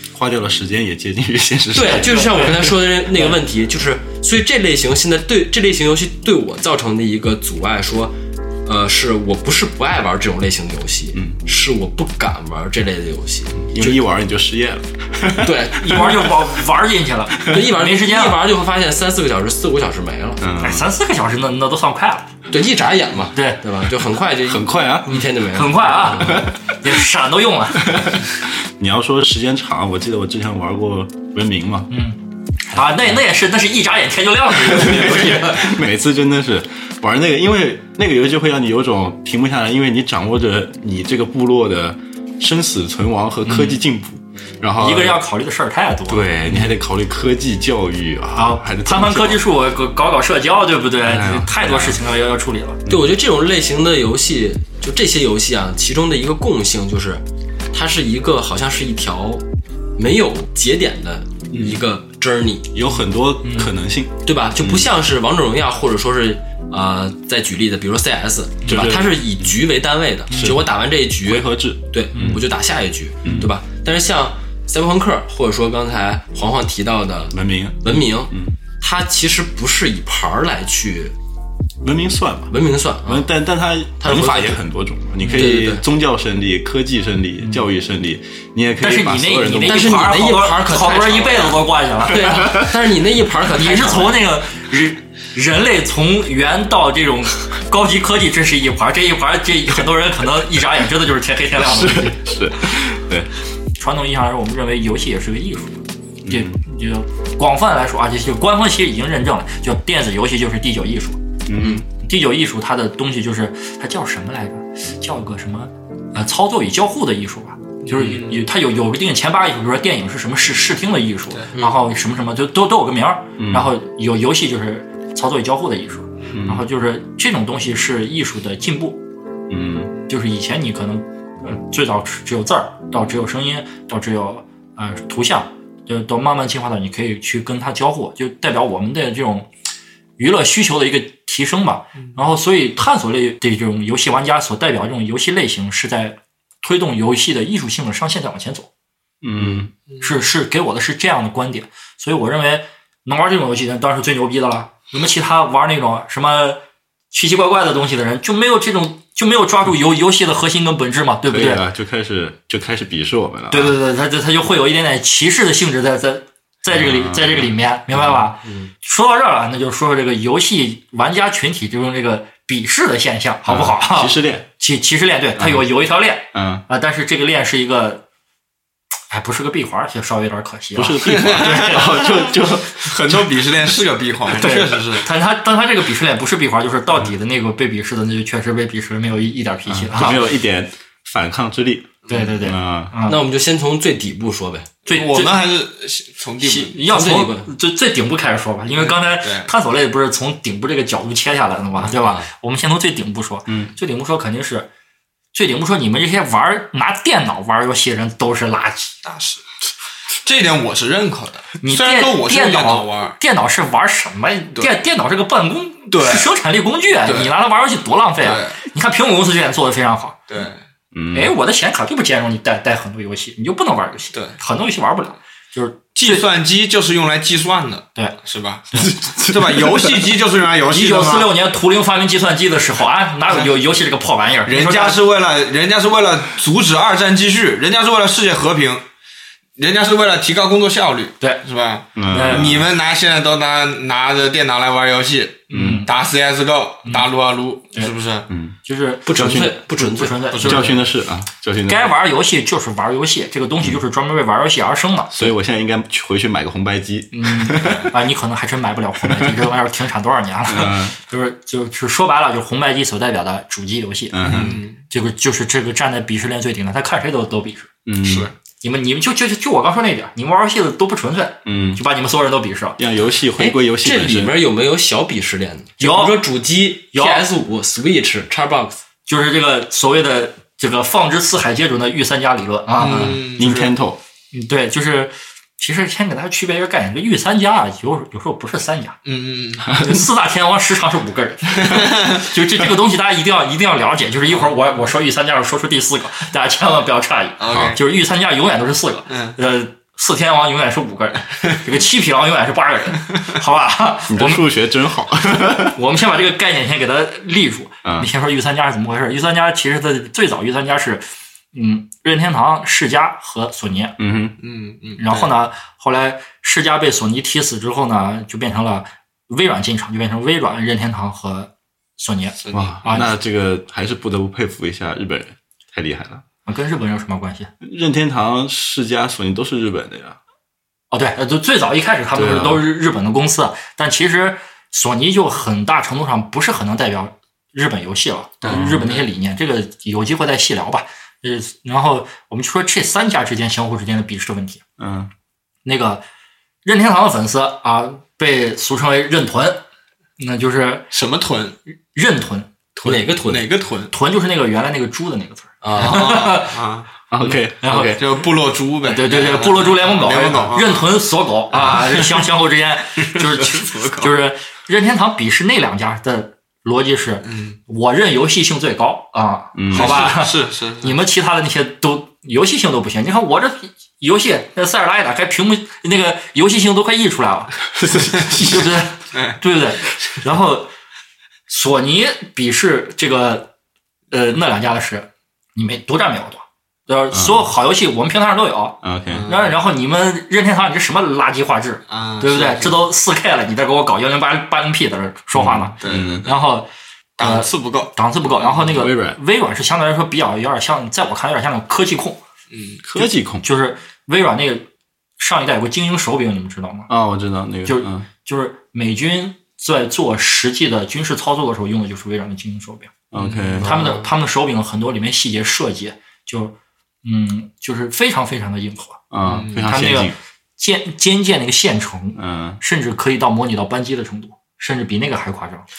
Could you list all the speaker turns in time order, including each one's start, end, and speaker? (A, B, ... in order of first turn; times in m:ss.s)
0:00.1-0:02.8 A
0:01.7-0:13.9 B
0:01.8-0:03.4 C
0:13.6-0:16.4 A
0:15.4-0:16.1 B
0:15.7-0:18.4 C
0:17.5-0:20.4 B
0:20.4-0:20.9 A
0:20.6-0:22.3 C
0:22.5-0:26.4 B
0:23.3-0:23.6 C
0:24.4-0:25.3 A
0:25.1-0:28.1 C
0:26.2-0:27.0 A
0:27.8-0:31.9 A
0:31.9-0:35.8 C
0:34.5-0:45.2 A
0:43.4-0:43.8 C
0:44.8-0:46.7 C
0:46.1-0:49.4 A
0:48.3-0:52.8 C
0:51.0-0:52.0 A
0:52.9-0:59.4 B
1:00.0-1:02.7 B
1:01.5-1:01.8 A
1:02.7-1:04.9 A
1:03.4-1:03.7 C
1:04.2-1:21.1 B
1:08.6-1:08.9 C
1:08.7-1:09.6 A
1:10.3-1:10.6 C
1:10.3-1:10.7 A
1:11.2-1:12.4 A
1:12.1-1:12.4 C
1:13.2-1:13.5 A
1:17.3-1:18.6 A
1:21.8-1:30.3 A
1:22.5-1:23.3 B
1:24.0-1:24.6 B
1:25.2-1:25.5 C
1:25.2-1:25.8 B
1:28.8-1:32.7 C
1:29.6-1:34.2 B
1:32.2-1:32.6 A
1:33.4-1:42.2 C
1:41.6-1:43.3 A
1:43.8-1:51.2 C
1:46.2-1:46.6 A
1:51.5-1:51.8 A
1:51.6-1:51.8 B
1:51.8-2:09.0 C
1:57.8-1:58.4 D
2:03.4-2:03.7 A
2:06.3-2:06.7 A
2:09.5-2:09.9 A
2:10.1-2:19.5 C
2:20.2-2:28.7 C
2:29.2-2:29.7 A
2:29.9-2:30.2 D
2:30.0-2:41.6 C
2:41.2-2:43.8 A
2:43.5-2:58.0 C
2:46.7-2:48.3 A
2:48.4-2:48.7 B
2:53.4-2:54.4 A
2:55.4-2:55.7 A
2:56.3-2:56.6 A
2:59.1-3:02.2 C
3:00.7-3:03.3 A
3:01.0-3:05.1 D
3:04.3-3:10.2 C
3:09.7-3:12.9 A
3:12.1-3:13.2 C
3:13.0-3:14.7 B
3:14.8-3:15.4 C
3:14.9-3:16.9 D
3:16.4-3:24.7 C
3:16.9-3:17.5 B
3:18.7-3:19.5 D
3:21.8-3:22.2 B
3:25.3-3:28.9 C
3:29.0-3:33.2 D
3:31.6-3:40.2 C
3:35.9-3:36.3 D
3:37.0-3:37.3 D
3:38.2-3:38.6 D
3:40.3-3:40.6 D
3:40.9-3:41.3 A
3:41.1-3:46.2 C
3:44.1-3:44.4 D
3:45.9-3:51.3 D
3:48.7-3:49.9 A
3:50.7-3:55.0 C
3:54.4-3:58.8 D
3:59.6-4:08.3 D
4:02.0-4:02.6 A
4:02.1-4:02.5 C
4:05.5-4:05.9 C
4:05.5-4:05.8 A
4:08.3-4:08.5 A
4:08.6-4:10.8 C
4:09.0-4:10.2 B
4:10.3-4:10.7 D
4:10.4-4:11.9 A
4:11.7-4:15.3 C
4:15.1-4:17.9 A
4:17.1-4:27.7 C
4:19.0-4:19.4 A
4:20.5-4:21.0 A
4:24.1-4:24.6 A
4:24.2-4:24.8 D
4:27.8-4:28.3 A
4:28.0-4:28.3 D
4:28.6-4:32.8 C
4:31.4-4:31.8 A
4:32.8-4:34.3 A
4:33.4-4:38.8 B
4:35.8-4:36.2 C
4:36.9-4:37.2 C
4:39.0-4:43.5 C
4:42.8-4:43.7 D
4:42.9-4:44.0 A
4:44.3-4:49.0 C
4:49.0-4:49.8 D
4:49.7-5:04.4 C
4:51.6-4:52.2 D
4:57.4-4:57.8 D
4:59.1-4:59.4 D
5:04.1-5:05.8 A
5:05.7-5:14.0 C
5:07.8-5:08.1 A
5:14.0-5:14.4 A
5:14.4-5:15.3 D
5:15.0-5:23.1 C
5:22.4-5:22.8 D
5:22.5-5:26.2 A
5:26.4-5:27.5 C
5:27.6-5:30.2 A
5:30.9-5:44.6 C
5:32.1-5:32.7 A
5:38.4-5:39.0 D
5:38.4-5:39.0 A
5:44.8-5:45.1 A
5:45.6-5:46.0 C
5:46.6-5:49.6 C
5:50.2-5:50.8 C
5:50.9-5:51.6 D
5:51.9-5:52.5 C
5:52.8-5:53.5 B
5:52.9-5:53.9 D
5:53.9-5:56.6 C
5:55.6-5:56.1 B
5:55.8-5:56.9 D
5:57.1-5:58.0 A
5:57.2-5:58.0 C
5:58.0-6:01.0 D
5:58.8-6:20.7 C
6:01.5-6:02.3 D
6:03.0-6:04.1 D
6:07.2-6:07.6 D
6:09.6-6:10.1 A
6:09.7-6:11.0 D
6:17.8-6:18.6 A
6:21.5-6:23.5 C
6:24.1-6:36.7 C
6:27.1-6:27.5 A
6:28.8-6:29.3 A
6:29.1-6:29.6 D
6:31.9-6:32.8 D
6:35.3-6:36.3 A
6:35.8-6:36.4 D
6:37.2-6:38.9 D
6:37.2-6:42.2 C
6:38.6-6:39.2 A
6:42.5-6:42.8 D
6:42.8-6:43.4 A
6:43.0-6:44.7 C
6:45.2-6:46.9 C
6:46.9-6:48.1 A
6:47.6-6:52.9 C
6:53.1-6:53.9 A
6:53.1-6:53.6 D
6:53.6-6:54.1 B
6:53.6-6:59.0 C
6:59.1-7:00.2 A
6:59.2-6:59.7 D
6:59.6-7:05.6 C
7:02.2-7:02.6 A